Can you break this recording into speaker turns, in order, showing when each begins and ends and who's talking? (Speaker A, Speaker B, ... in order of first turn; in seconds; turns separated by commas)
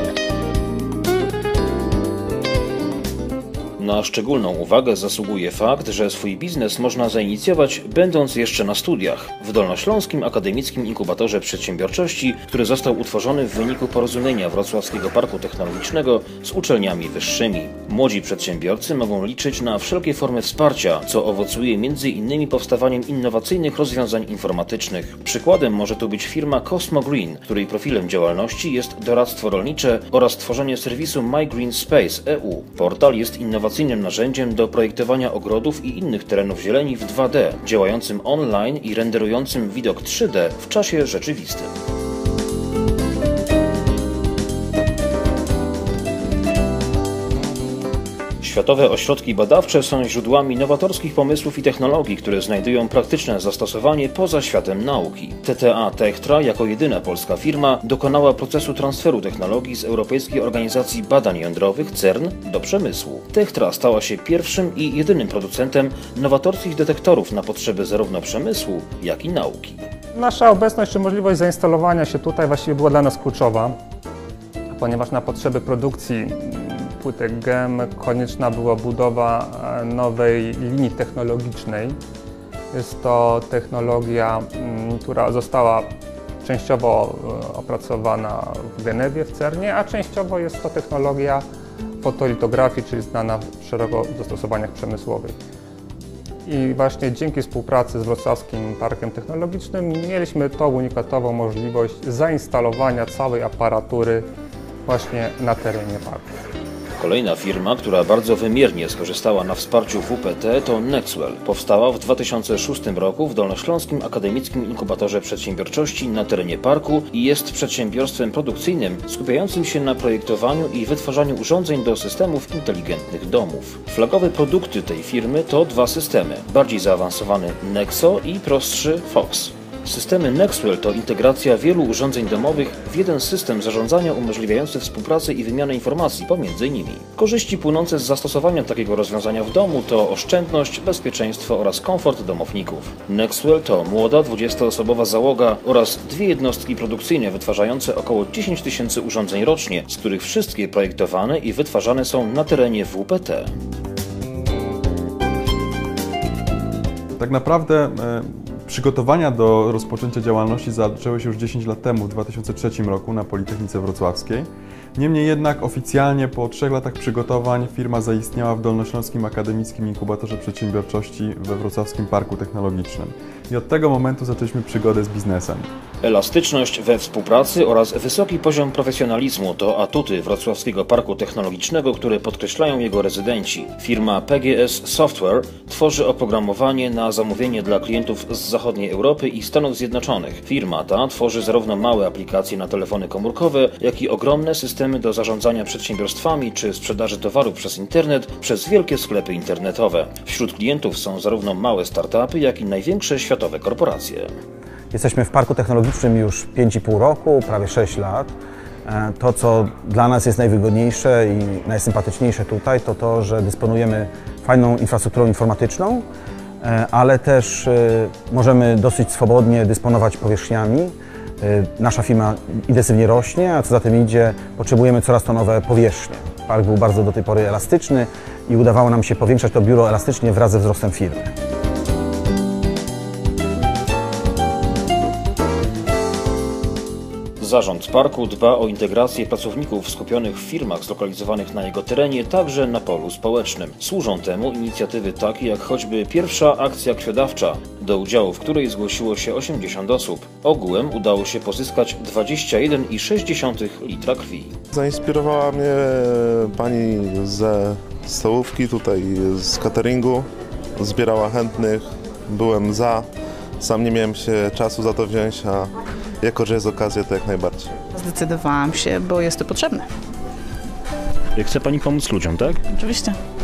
Speaker A: 3.8-41.7, Speaker A: 48.4-69.9, Speaker B: 70.1-73.8, Speaker B: 74.7-82.0, Speaker B: 82.7-85.9, Speaker B: 86.4-91.4, Speaker B: 92.0-95.3, Speaker B: 96.5-104.2, Speaker B: 104.8-106.3, Speaker A: 107.0-153.5, Speaker C: 157.2-175.7, Speaker A: 176.0-204.3, Speaker D: 204.9-208.3, Speaker D: 208.9-216.0, Speaker D: 216.6-231.3, Speaker A: 237.4-254.6, Speaker E: 254.7-260.2, Speaker E: 260.8-263.1, Speaker E: 263.6-265.6, Speaker E: 266.2-267.7, Speaker F: 267.9-269.9, Speaker A: 271.4-272.6, Speaker F: 272.7-273.2